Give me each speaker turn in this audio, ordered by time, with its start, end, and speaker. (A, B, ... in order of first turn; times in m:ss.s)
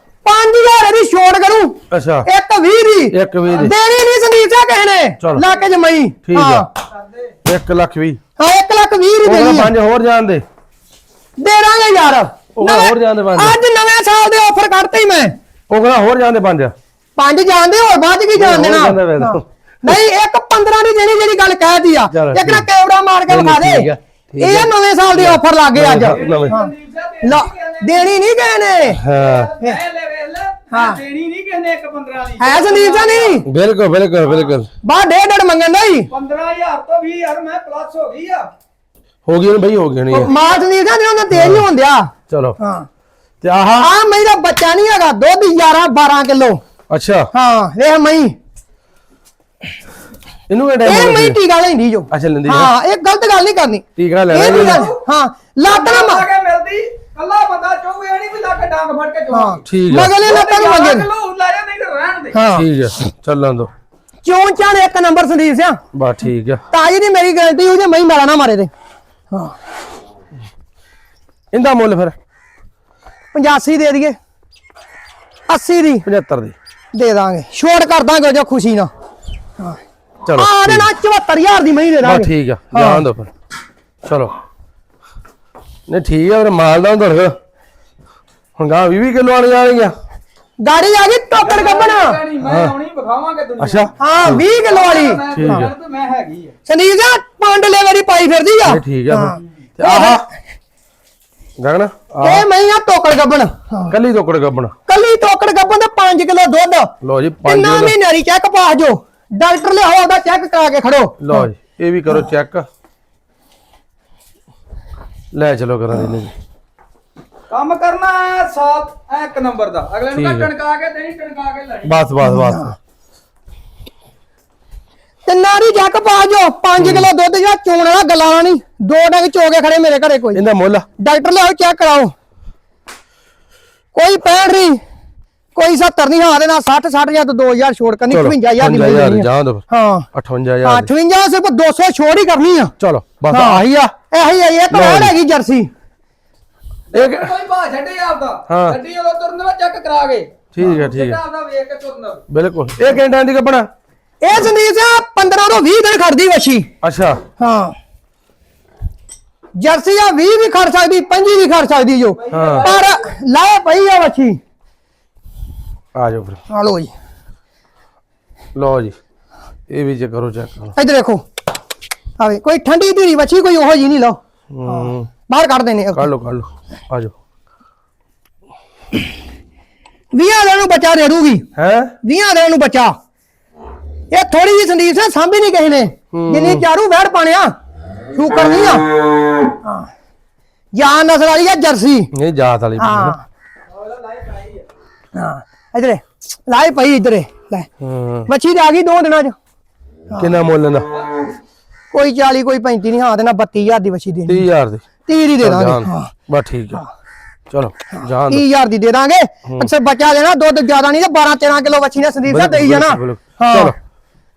0:00.2-0:06.7 A
0:01.9-0:02.3 B
0:03.1-0:03.8 B
0:06.3-0:06.7 B
0:07.4-0:08.2 B
0:08.4-0:09.7 A
0:09.2-0:10.4 B
0:11.4-0:15.3 A
0:12.6-0:13.6 B
0:15.7-0:16.7 B
0:17.2-0:26.7 A
0:18.4-0:19.4 B
0:22.1-0:22.7 B
0:23.3-0:26.6 B
0:26.1-0:28.1 C
0:27.2-0:29.0 A
0:28.9-0:29.6 B
0:29.1-0:33.4 C
0:30.7-0:31.0 A
0:32.4-0:33.5 A
0:33.4-0:34.7 B
0:34.8-0:36.1 A
0:36.1-0:38.5 C
0:39.3-0:40.3 B
0:40.1-0:42.9 A
0:41.3-0:41.7 B
0:42.3-0:42.6 B
0:43.4-0:43.9 B
0:43.8-0:46.6 A
0:46.9-0:47.3 B
0:47.3-0:48.3 A
0:50.5-0:51.4 B
0:50.8-0:56.3 A
0:52.1-0:52.7 B
0:54.0-0:54.9 B
0:54.4-0:55.0 C
0:55.6-0:59.6 C
0:59.3-1:01.1 A
0:59.6-1:00.2 B
1:00.2-1:02.4 C
1:02.3-1:02.7 A
1:02.5-1:03.7 B
1:04.2-1:05.8 A
1:05.9-1:06.6 B
1:06.7-1:08.7 A
1:11.5-1:12.2 B
1:13.3-1:14.2 A
1:15.5-1:16.1 A
1:16.0-1:16.6 B
1:16.9-1:18.9 A
1:20.2-1:20.9 B
1:20.4-1:23.1 A
1:22.0-1:23.3 B
1:24.0-1:24.4 B
1:25.9-1:27.4 B
1:28.6-1:29.9 B
1:30.6-1:32.2 A
1:31.4-1:33.9 C
1:32.4-1:32.8 B
1:33.6-1:34.4 B
1:34.0-1:35.7 A
1:34.5-1:36.5 C
1:35.3-1:35.7 B
1:36.6-1:40.3 A
1:38.6-1:40.2 B
1:41.6-1:42.5 B
1:42.2-1:44.0 A
1:43.9-1:44.8 B
1:44.9-1:46.9 A
1:47.0-1:48.0 B
1:47.4-1:51.5 A
1:51.2-1:52.7 B
1:55.3-1:56.3 B
1:57.5-2:02.0 C
2:00.1-2:00.5 B
2:01.8-2:02.8 B
2:02.2-2:02.8 A
2:05.3-2:10.4 A
2:06.8-2:07.1 B
2:10.3-2:10.9 B
2:11.0-2:12.1 A
2:13.9-2:14.8 A
2:15.6-2:20.1 A
2:18.1-2:20.9 B
2:20.6-2:22.7 A
2:22.8-2:23.9 B
2:23.3-2:25.7 A
2:24.7-2:25.2 B
2:26.9-2:32.2 C
2:26.9-2:27.3 B
2:28.5-2:28.8 B
2:30.5-2:31.2 B
2:32.3-2:33.7 B
2:34.2-2:36.7 A
2:36.8-2:37.2 B
2:37.4-2:37.8 A
2:39.6-2:44.4 A
2:42.2-2:43.0 C
2:42.3-2:42.8 B
2:46.0-2:46.4 B
2:46.5-2:46.9 A
2:48.6-2:49.0 B
2:49.7-2:50.8 B
2:50.8-2:51.2 A
2:52.2-2:56.1 A
2:54.5-2:55.1 B
2:55.9-2:57.1 B
3:00.1-3:01.5 A
3:01.6-3:02.0 B
3:02.0-3:03.0 A
3:04.1-3:07.5 A
3:06.1-3:06.6 B
3:08.1-3:08.9 A
3:09.6-3:09.9 A
3:10.8-3:12.1 A
3:12.1-3:13.2 B
3:12.8-3:13.2 A
3:13.8-3:14.6 C
3:15.2-3:17.7 A
3:17.8-3:18.3 B
3:18.3-3:19.4 A
3:20.1-3:20.4 A
3:20.2-3:21.0 B
3:21.9-3:24.5 A
3:24.3-3:24.9 B
3:25.1-3:26.1 A
3:25.4-3:26.8 B
3:27.5-3:28.5 B
3:27.9-3:33.7 A
3:32.3-3:33.8 B